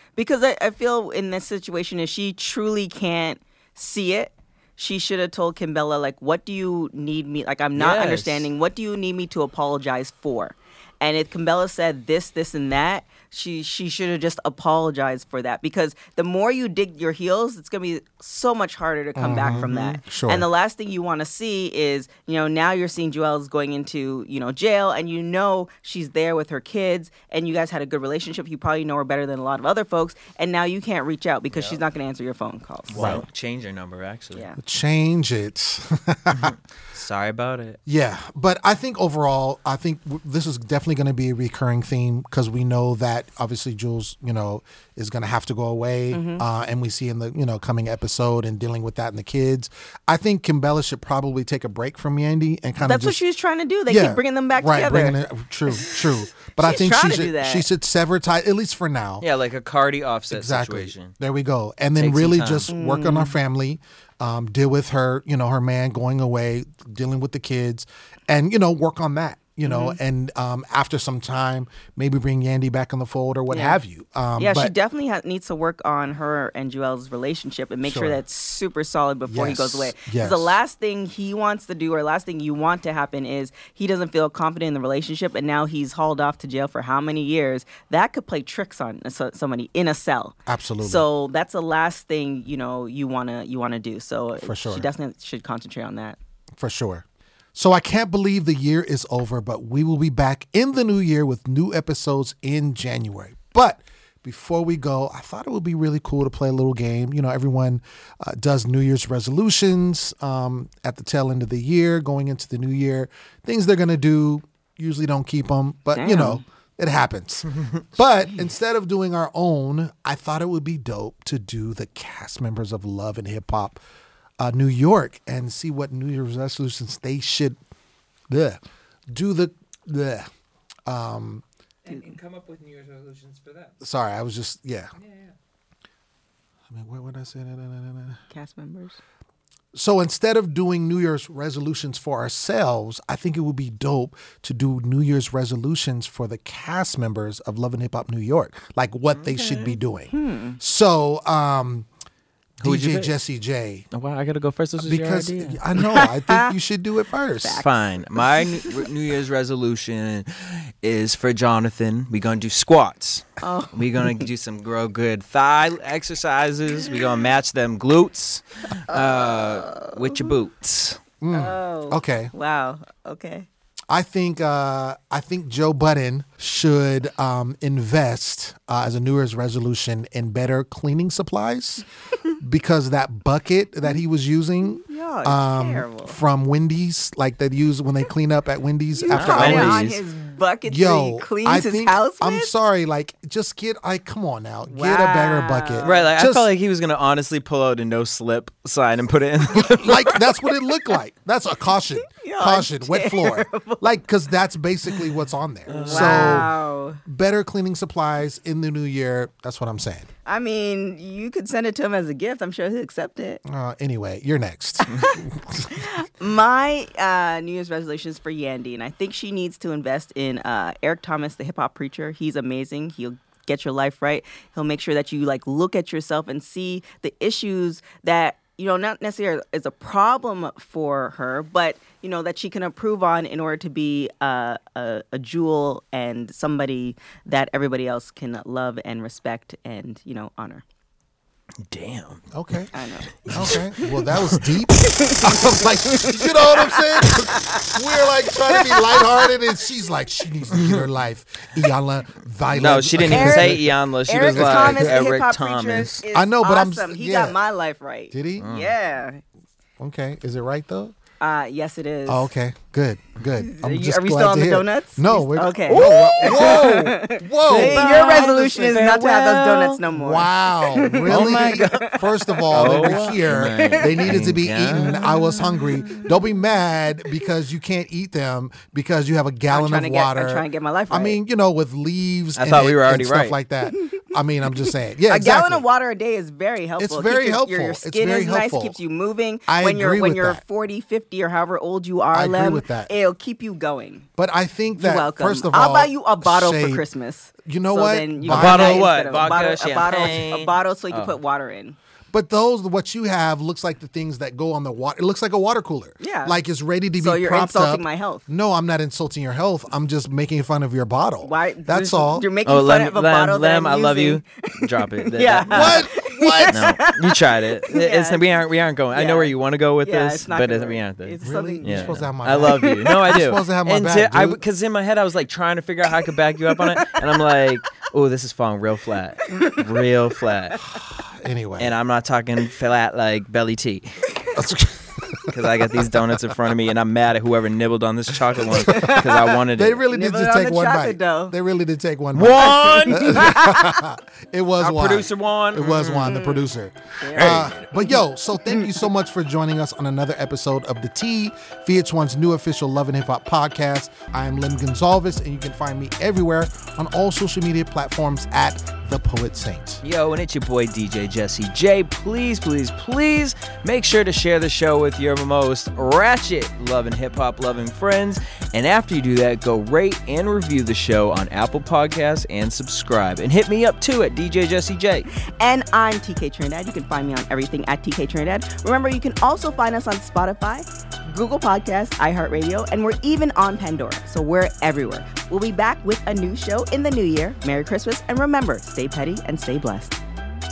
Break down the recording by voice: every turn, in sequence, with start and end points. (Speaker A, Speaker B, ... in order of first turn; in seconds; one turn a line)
Speaker A: 0.2-33.2
Speaker B: 7.7-8.4
Speaker C: 19.2-20.5
Speaker B: 19.5-20.0
Speaker B: 31.5-31.8
Speaker B: 32.9-34.5
Speaker C: 33.0-33.2
Speaker C: 34.6-36.5
Speaker B: 36.3-37.8
Speaker C: 37.9-53.2
Speaker A: 46.1-46.4
Speaker A: 52.8-55.2
Speaker C: 53.9-59.2
Speaker A: 55.7-57.7
Speaker B: 59.2-61.1
Speaker C: 60.3-74.7
Speaker B: 62.0-62.7
Speaker A: 62.7-63.4
Speaker A: 69.7-70.0
Speaker A: 73.5-73.8
Speaker A: 74.4-96.2
Speaker C: 77.8-78.2
Speaker C: 79.3-80.6
Speaker C: 90.5-91.1
Speaker C: 94.4-94.9
Speaker C: 96.5-123.8
Speaker A: 115.9-116.4
Speaker B: 117.5-117.8
Speaker C: 124.4-127.6
Speaker C: 128.3-130.3
Speaker C: 130.9-131.4
Speaker B: 131.9-133.7
Speaker C: 133.8-134.9
Speaker B: 135.0-135.3
Speaker C: 136.7-138.2
Speaker A: 138.3-139.0
Speaker C: 139.7-151.9
Speaker B: 149.1-149.7
Speaker A: 150.1-150.6
Speaker B: 152.6-153.1
Speaker C: 152.6-153.9
Speaker B: 153.9-155.6
Speaker C: 154.8-157.6
Speaker A: 155.8-156.6
Speaker A: 157.4-158.9
Speaker B: 157.6-171.0
Speaker A: 163.4-164.3
Speaker A: 168.9-170.3
Speaker C: 171.2-172.3
Speaker A: 171.3-173.5
Speaker C: 173.9-181.8
Speaker C: 182.4-189.8
Speaker A: 184.6-186.2
Speaker A: 189.0-192.5
Speaker B: 189.1-190.0
Speaker C: 190.7-196.5
Speaker A: 194.7-196.1
Speaker B: 195.8-200.2
Speaker C: 199.6-206.5
Speaker A: 202.1-204.0
Speaker B: 205.7-206.5
Speaker A: 205.8-207.0
Speaker C: 207.1-210.1
Speaker A: 210.3-213.4
Speaker C: 213.4-215.9
Speaker A: 215.7-240.6
Speaker B: 241.7-242.3
Speaker C: 242.3-242.7
Speaker A: 242.7-243.9
Speaker B: 243.2-243.6
Speaker C: 243.2-253.7
Speaker A: 244.7-249.3
Speaker B: 250.5-250.8
Speaker B: 252.6-256.0
Speaker A: 253.1-259.2
Speaker C: 254.3-255.0
Speaker C: 256.1-257.4
Speaker C: 258.1-258.5
Speaker B: 258.4-258.7
Speaker C: 259.8-260.9
Speaker A: 261.2-262.3
Speaker C: 262.1-268.3
Speaker A: 263.4-274.2
Speaker B: 265.7-266.9
Speaker B: 267.4-269.8
Speaker C: 269.9-285.6
Speaker B: 270.9-272.0
Speaker B: 272.5-275.1
Speaker A: 274.8-275.2
Speaker A: 275.8-276.1
Speaker A: 279.5-281.2
Speaker B: 282.4-283.4
Speaker A: 284.6-294.1
Speaker C: 286.8-288.8
Speaker C: 289.5-290.4
Speaker C: 292.1-292.9
Speaker C: 294.2-296.8
Speaker A: 294.8-301.8
Speaker C: 297.4-298.9
Speaker B: 298.3-301.2
Speaker C: 302.1-312.3
Speaker A: 306.0-306.4
Speaker A: 307.0-308.2
Speaker A: 311.2-318.4
Speaker B: 312.4-315.9
Speaker C: 315.5-316.7
Speaker B: 316.5-330.6
Speaker A: 318.9-323.1
Speaker C: 321.2-324.4
Speaker A: 329.3-329.6
Speaker C: 331.0-331.8
Speaker B: 331.6-333.9
Speaker C: 334.3-335.3
Speaker B: 335.3-339.8
Speaker A: 338.5-341.4
Speaker C: 338.6-359.8
Speaker B: 342.1-343.4
Speaker A: 342.4-343.9
Speaker B: 344.6-346.1
Speaker A: 346.1-346.4
Speaker A: 347.0-348.7
Speaker B: 347.1-347.7
Speaker B: 359.8-375.1
Speaker A: 375.4-390.0